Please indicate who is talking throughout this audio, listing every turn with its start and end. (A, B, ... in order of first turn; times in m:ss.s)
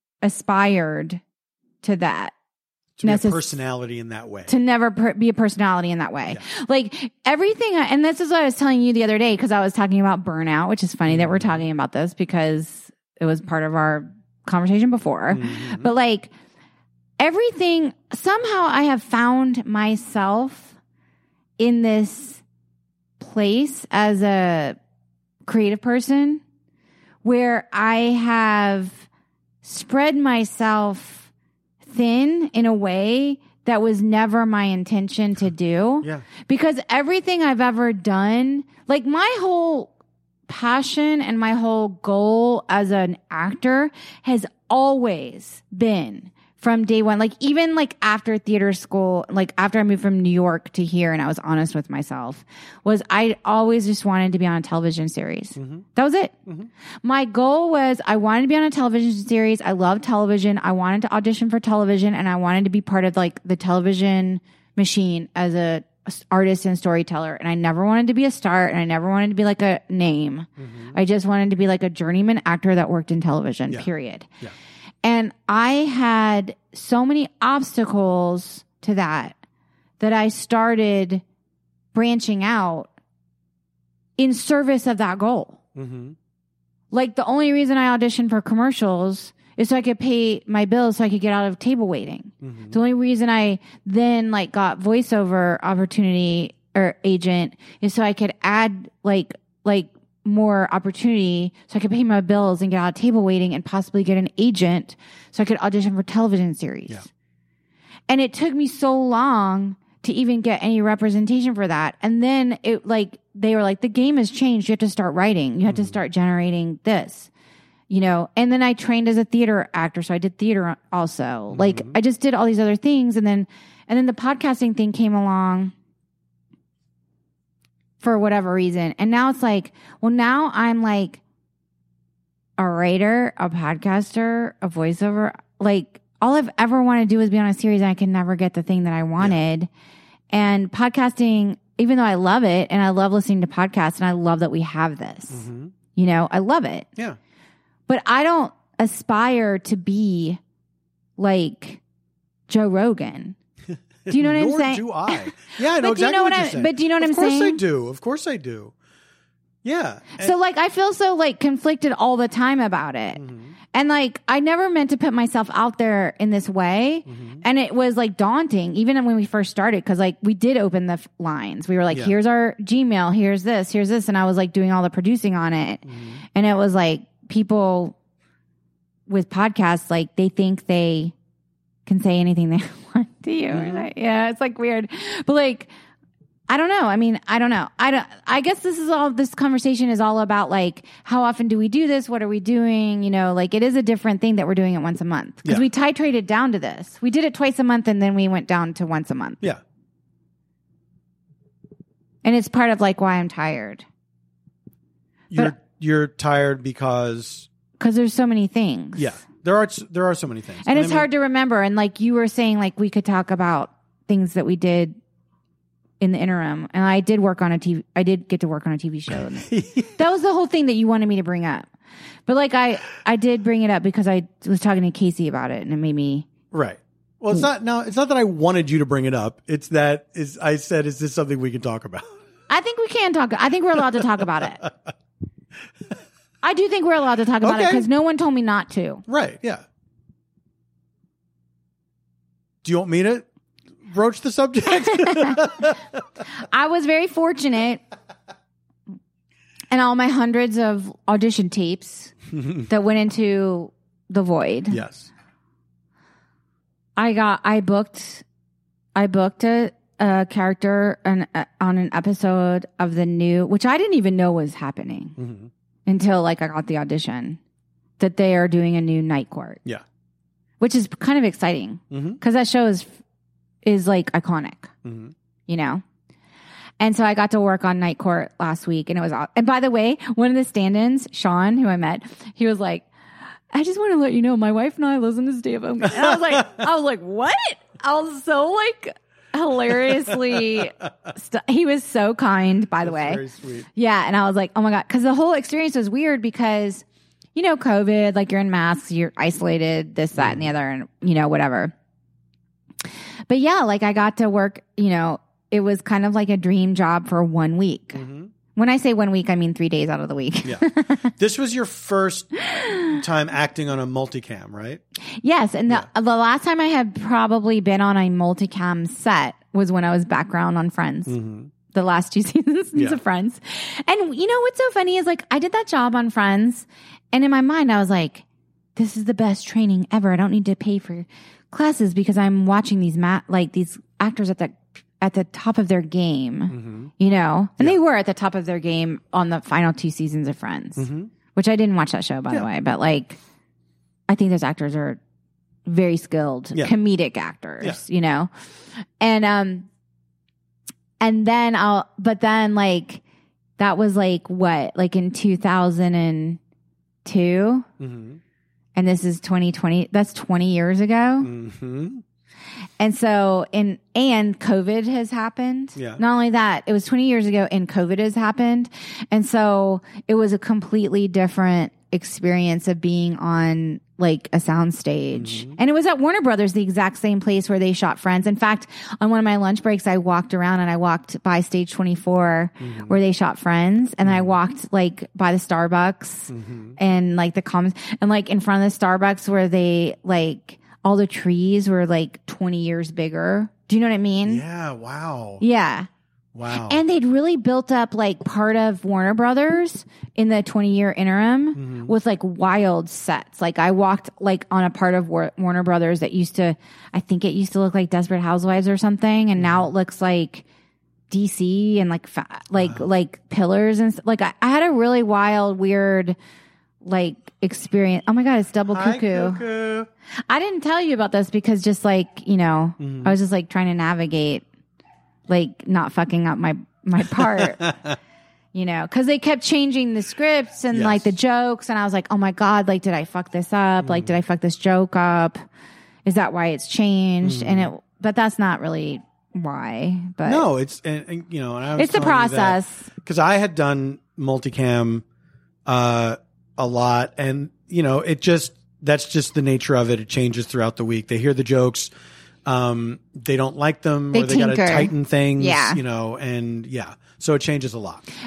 0:00.2-0:01.2 A
0:01.8-0:02.3 A
0:03.0-0:04.5 B
0:03.0-0:03.4 A
0:04.5-0:16.3 A
0:11.1-0:11.6 B
0:15.3-0:15.9 B
0:17.2-0:20.8 A
0:21.6-0:22.4 A
0:23.2-0:24.8 A
0:25.4-0:26.4 A
0:27.2-0:29.0 A
0:29.6-0:31.3 A
0:31.9-0:39.9 A
0:40.5-0:56.4 A
0:55.6-0:55.8 B
0:57.0-1:14.3 A
1:10.6-1:11.0 B
1:15.0-1:19.4 A
1:20.0-1:21.2 A
1:21.9-1:22.9 A
1:24.2-1:25.6 A
1:25.8-1:26.2 B
1:26.9-1:47.0 A
1:32.4-1:32.8 B
1:48.1-1:57.3 A
1:55.7-1:56.0 B
1:57.9-2:05.7 A
2:01.5-2:02.0 B
2:08.0-2:11.2 A
2:12.6-2:19.7 A
2:20.3-2:25.4 A
2:25.3-2:25.7 B
2:26.0-2:26.9 A
2:27.9-2:30.4 A
2:31.2-2:31.8 A
2:32.5-2:33.4 A
2:34.1-2:38.7 B
2:34.1-2:37.6 A
2:39.6-2:40.3 B
2:40.2-2:43.2 A
2:43.2-2:43.6 B
2:43.7-2:58.0 A
2:47.1-2:47.4 B
2:55.9-2:56.2 B
2:59.1-3:01.1 A
3:01.9-3:05.7 A
3:03.5-3:03.9 B
3:06.5-3:19.4 A
3:22.2-3:23.8 A
3:25.3-3:27.5 B
3:27.8-3:29.1 A
3:29.0-3:31.1 B
3:30.6-3:35.0 A
3:36.0-3:41.7 A
3:39.1-3:40.0 B
3:42.3-3:46.3 A
3:46.5-3:52.0 B
3:52.5-3:54.6 A
3:56.4-3:59.0 A
3:57.4-3:57.9 B
3:59.1-3:59.6 B
4:02.6-4:03.2 B
4:03.9-4:05.9 B
4:04.9-4:05.4 A
4:06.4-4:07.8 A
4:09.7-4:12.1 A
4:12.4-4:12.7 B
4:12.7-4:14.8 A
4:14.7-4:15.1 B
4:17.0-4:18.2 A
4:19.0-4:25.2 A
4:25.2-4:25.5 B
4:25.9-4:27.4 A
4:28.0-4:29.6 A
4:30.6-4:32.9 A
4:31.9-4:32.2 B
4:33.6-4:34.7 A
4:34.8-4:35.1 B
4:35.5-4:35.8 A
4:36.8-4:42.9 A
4:43.5-4:53.2 A
4:52.8-4:53.7 B
4:53.8-4:56.8 A
4:57.4-5:01.7 A
5:00.2-5:00.4 B
5:03.3-5:08.0 A
5:07.9-5:08.3 B
5:08.6-5:11.1 A
5:10.4-5:14.8 B
5:15.2-5:21.1 A
5:21.1-5:21.5 B
5:21.7-5:28.2 A
5:28.8-5:43.2 A
5:36.5-5:36.9 B
5:40.8-5:41.1 B
5:44.1-5:45.0 A
5:45.7-5:48.3 A
5:49.0-5:49.7 A
5:51.0-5:53.0 A
5:53.6-5:56.4 A
5:57.0-5:57.7 A
5:57.8-5:58.2 B
5:58.8-6:01.3 A
6:01.2-6:02.0 B
6:02.8-6:34.4 A
6:05.8-6:06.0 B
6:15.1-6:15.6 B
6:22.6-6:22.9 B
6:24.0-6:24.3 B
6:26.3-6:26.8 B
6:34.3-6:35.4 B
6:35.4-6:35.9 A
6:36.3-6:36.8 B
6:36.5-6:50.4 A
6:41.6-6:41.9 B
6:49.4-6:49.7 B
6:51.1-6:56.2 A
6:56.8-6:59.4 A
6:58.7-6:59.9 B
7:00.3-7:04.4 A
7:02.8-7:03.2 B
7:05.3-7:07.7 A
7:07.2-7:08.0 B
7:08.5-7:15.4 A
7:10.7-7:11.1 B
7:13.8-7:14.2 B
7:16.0-7:20.4 A
7:17.2-7:17.7 B
7:20.2-7:25.0 B
7:21.8-7:22.9 A
7:25.7-7:31.9 B
7:32.5-7:38.0 B
7:34.1-7:35.8 A